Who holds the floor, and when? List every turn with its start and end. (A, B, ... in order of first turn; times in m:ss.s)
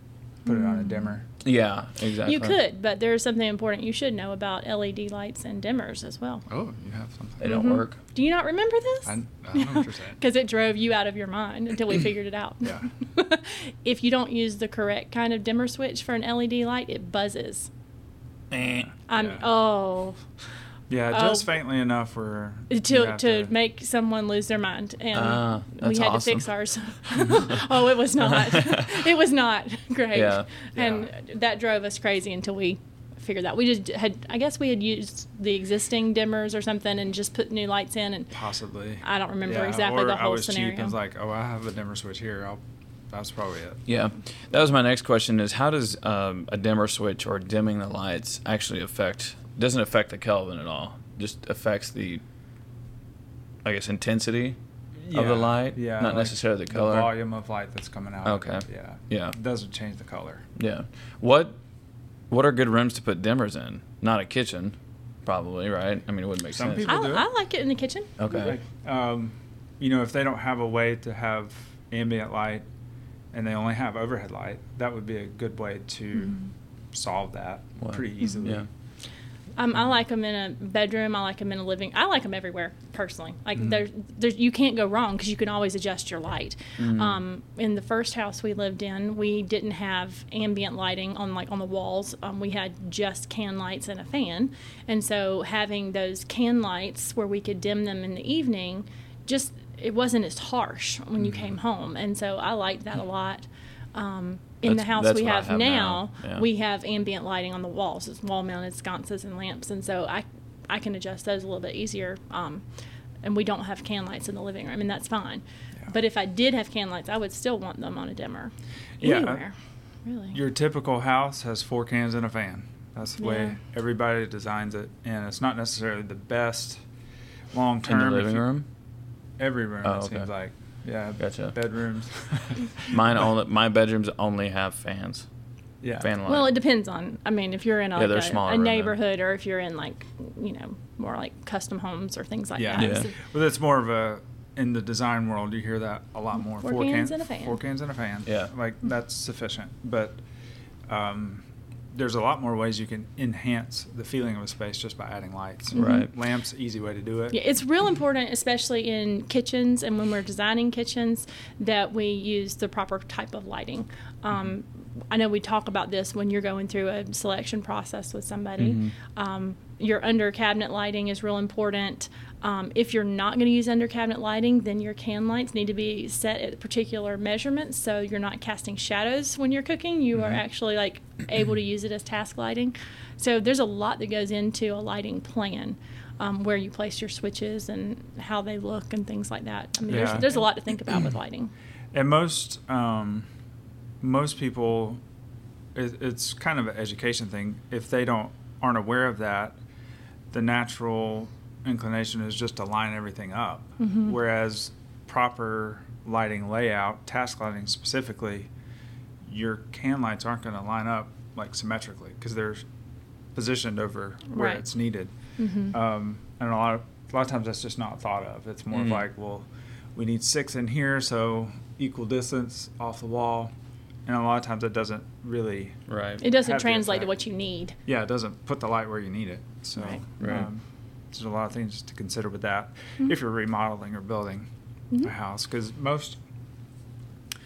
0:00.4-0:01.2 A
0:00.5-0:01.1 B
0:01.4-0:02.6 C
0:02.2-0:06.4 B
0:06.5-0:07.7 A
0:07.4-0:08.0 C
0:07.4-0:17.7 B
0:09.0-0:10.2 A
0:12.6-0:12.9 A
0:18.5-0:18.9 C
0:18.8-0:19.4 A
0:19.1-0:20.2 B
0:20.9-0:23.5 A
0:21.1-0:21.5 B
0:22.7-0:38.3 B
0:25.1-0:26.5 C
0:27.1-0:27.5 C
0:28.2-0:29.1 C
0:30.1-0:30.5 C
0:30.7-0:31.1 A
0:38.3-0:42.6 A
0:39.0-0:40.9 B
0:43.1-0:43.8 A
0:43.8-0:52.2 C
0:53.6-0:54.6 C
0:55.0-1:00.4 A
0:55.1-0:57.1 C
0:58.2-0:59.3 C
1:00.6-1:01.6 C
1:02.3-1:07.0 C
1:06.5-1:07.3 A
1:06.8-1:08.1 B
1:08.2-1:08.6 C
1:08.3-1:12.6 A
1:13.3-1:16.4 A
1:16.9-1:18.7 A
1:17.8-1:18.6 C
1:19.6-1:52.6 B
1:26.8-1:27.2 C
1:44.6-1:46.4 C
1:53.2-1:59.5 B
1:59.0-1:59.4 A
2:00.0-2:00.4 B
2:00.3-2:06.8 A
2:03.2-2:03.6 B
2:07.5-2:08.5 A
2:07.8-2:08.7 C
2:09.4-2:12.9 A
2:09.8-2:10.3 C
2:11.2-2:11.6 C
2:12.8-2:15.3 C
2:15.8-2:16.1 A
2:16.0-2:16.5 C
2:16.2-2:23.1 B
2:17.9-2:19.0 C
2:22.6-2:30.2 A
2:22.8-2:23.1 C
2:26.6-2:27.6 B
2:30.9-2:37.4 A
2:35.7-2:36.1 B
2:35.8-2:36.1 C
2:37.3-3:11.5 B
2:48.6-2:48.9 C
3:09.9-3:10.3 A
3:11.9-3:13.3 A
3:14.0-3:15.0 A
3:15.7-3:19.6 A
3:20.3-3:28.5 A
3:23.8-3:24.1 B
3:29.2-3:32.6 A
3:33.3-3:35.1 A
3:34.3-3:34.6 B
3:35.4-3:35.7 B
3:35.7-3:43.5 A
3:38.7-3:39.0 C
3:44.0-3:47.1 A
3:45.9-3:46.2 C
3:46.2-3:47.8 B
3:47.8-3:54.5 A
3:50.2-3:50.5 C
3:55.0-3:56.2 A